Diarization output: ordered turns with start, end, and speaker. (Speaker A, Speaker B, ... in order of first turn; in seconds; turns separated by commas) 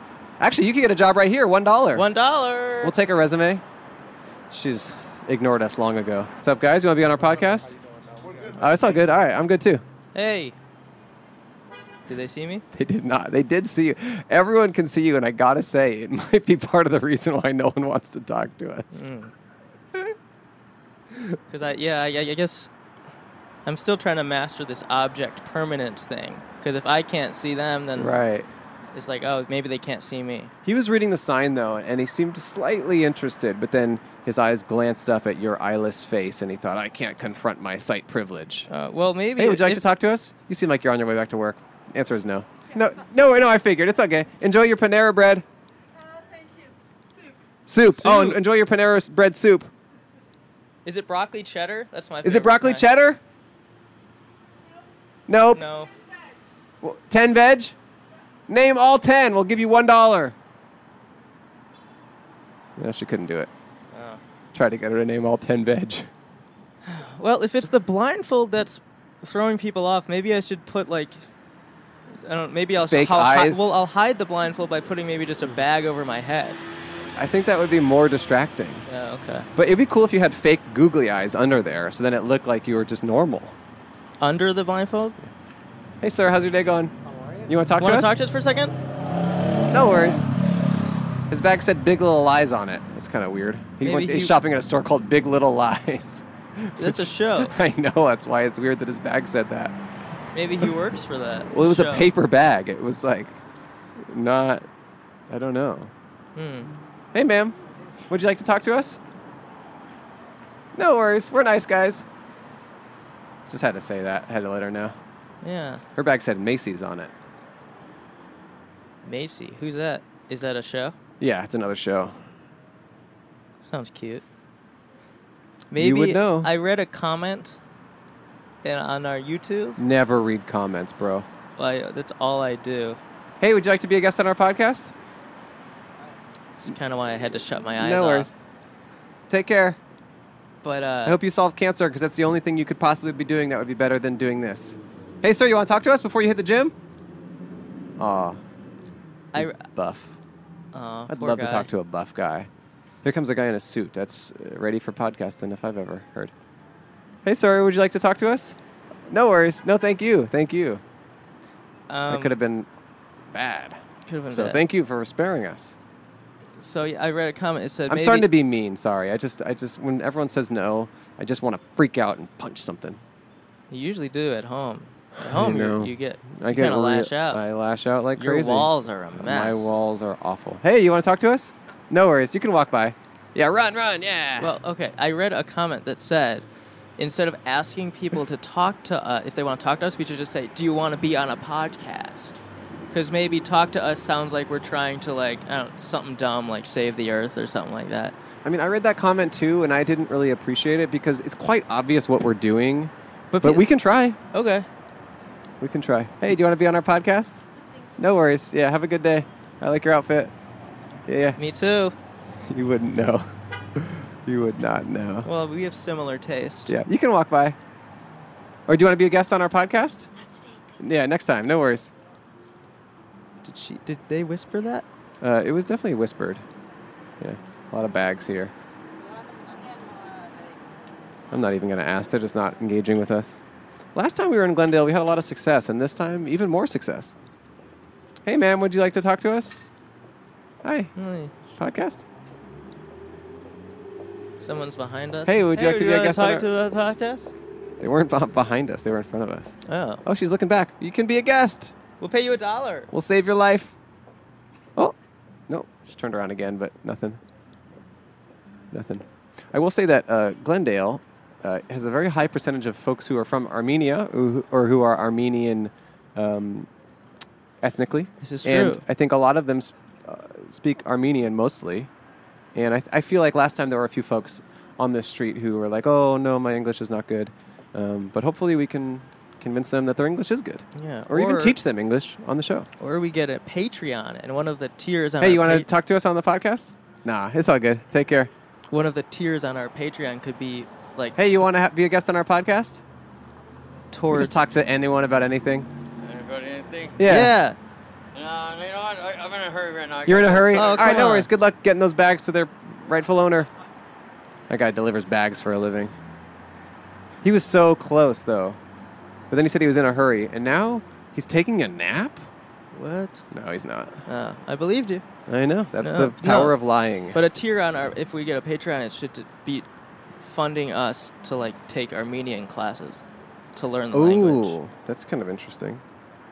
Speaker A: 0.4-2.0, Speaker B: 1.9-2.9, Speaker A: 2.8-3.6, Speaker A: 4.5-7.7, Speaker A: 8.5-9.8, Speaker B: 10.1-10.5, Speaker B: 12.1-12.6, Speaker A: 12.7-19.0, Speaker B: 18.9-19.3, Speaker B: 21.5-22.7, Speaker B: 23.6-28.1, Speaker A: 27.9-28.5, Speaker B: 28.9-30.5, Speaker A: 30.6-38.7, Speaker B: 38.7-39.8, Speaker A: 39.4-45.4, Speaker A: 47.6-49.7, Speaker B: 47.8-48.4, Speaker B: 50.8-52.8, Speaker A: 52.2-53.2, Speaker A: 55.3-55.6, Speaker B: 55.5-55.9, Speaker A: 56.8-57.7, Speaker A: 58.5-60.3, Speaker A: 62.8-63.5, Speaker B: 63.9-64.2, Speaker A: 64.5-66.1, Speaker B: 66.8-71.2, Speaker B: 72.2-76.6, Speaker A: 72.8-73.7, Speaker A: 77.2-78.8, Speaker B: 78.9-79.5, Speaker A: 79.5-83.5, Speaker B: 84.2-85.2, Speaker A: 86.0-88.1, Speaker B: 87.8-88.7, Speaker A: 89.7-90.3, Speaker A: 91.3-99.7, Speaker B: 93.8-94.4, Speaker B: 96.8-97.5, Speaker B: 100.3-102.1, Speaker A: 101.5-103.4, Speaker A: 104.0-104.7, Speaker A: 105.3-105.9, Speaker B: 106.3-106.7, Speaker A: 107.1-107.5, Speaker A: 108.1-109.0, Speaker A: 110.7-112.0, Speaker A: 113.5-115.0, Speaker B: 115.4-115.8, Speaker A: 116.0-117.1, Speaker B: 119.0-121.0, Speaker A: 121.2-122.1, Speaker B: 123.6-124.2, Speaker B: 125.7-127.6, Speaker A: 125.7-126.5, Speaker B: 128.6-129.8, Speaker A: 129.8-131.3, Speaker B: 131.6-133.0, Speaker A: 133.4-134.9, Speaker B: 136.6-138.3, Speaker A: 137.8-138.3, Speaker A: 139.3-139.8, Speaker B: 140.6-141.2, Speaker A: 141.0-146.7, Speaker A: 148.0-148.4, Speaker B: 149.3-149.6, Speaker A: 149.3-150.1, Speaker B: 150.7-151.7, Speaker A: 151.1-152.5, Speaker A: 153.0-156.3, Speaker A: 157.2-158.6, Speaker A: 159.1-160.8, Speaker B: 161.9-162.3, Speaker A: 162.1-162.7, Speaker A: 163.3-163.8, Speaker B: 164.1-164.6, Speaker A: 164.3-165.8, Speaker B: 166.6-168.3, Speaker A: 167.9-173.0, Speaker B: 173.7-177.4, Speaker A: 175.2-184.6, Speaker B: 178.2-179.7, Speaker B: 184.4-186.4, Speaker B: 187.0-192.4, Speaker B: 192.9-198.1, Speaker A: 198.4-204.2, Speaker B: 203.3-203.7, Speaker B: 204.3-204.7, Speaker A: 205.6-207.4, Speaker A: 208.0-210.3, Speaker A: 211.1-211.4, Speaker B: 211.4-211.9, Speaker A: 212.5-215.3, Speaker B: 215.2-216.7, Speaker A: 216.7-217.6, Speaker A: 218.7-220.1, Speaker A: 220.8-221.9, Speaker B: 223.4-224.8, Speaker A: 225.2-226.4, Speaker A: 227.2-228.5, Speaker A: 231.3-233.4, Speaker A: 233.9-237.1, Speaker A: 238.2-239.6, Speaker A: 240.6-240.9, Speaker B: 240.9-241.3, Speaker A: 241.5-242.0, Speaker B: 244.4-247.3, Speaker A: 245.2-246.5, Speaker A: 247.8-251.7, Speaker B: 249.7-250.0, Speaker B: 252.0-252.9, Speaker A: 252.9-253.7, Speaker A: 255.5-257.2, Speaker A: 258.7-266.7, Speaker A: 267.6-271.9, Speaker B: 268.2-268.8, Speaker A: 272.5-282.7, Speaker B: 280.7-281.6, Speaker B: 282.8-285.7, Speaker A: 285.2-288.3, Speaker B: 288.7-291.4, Speaker A: 291.1-292.8, Speaker B: 293.9-294.4, Speaker A: 294.1-295.7, Speaker C: 296.0-297.0, Speaker A: 297.0-297.3, Speaker B: 297.0-297.6, Speaker C: 298.1-301.1, Speaker A: 300.1-303.5, Speaker B: 300.5-301.3, Speaker A: 304.5-305.9, Speaker A: 307.2-308.6, Speaker A: 309.3-312.2, Speaker B: 312.7-313.2, Speaker A: 313.3-314.0, Speaker B: 314.1-315.0, Speaker A: 315.3-317.2, Speaker B: 315.8-316.6, Speaker B: 317.1-319.6, Speaker B: 320.2-323.0, Speaker B: 323.5-324.6, Speaker A: 323.9-325.8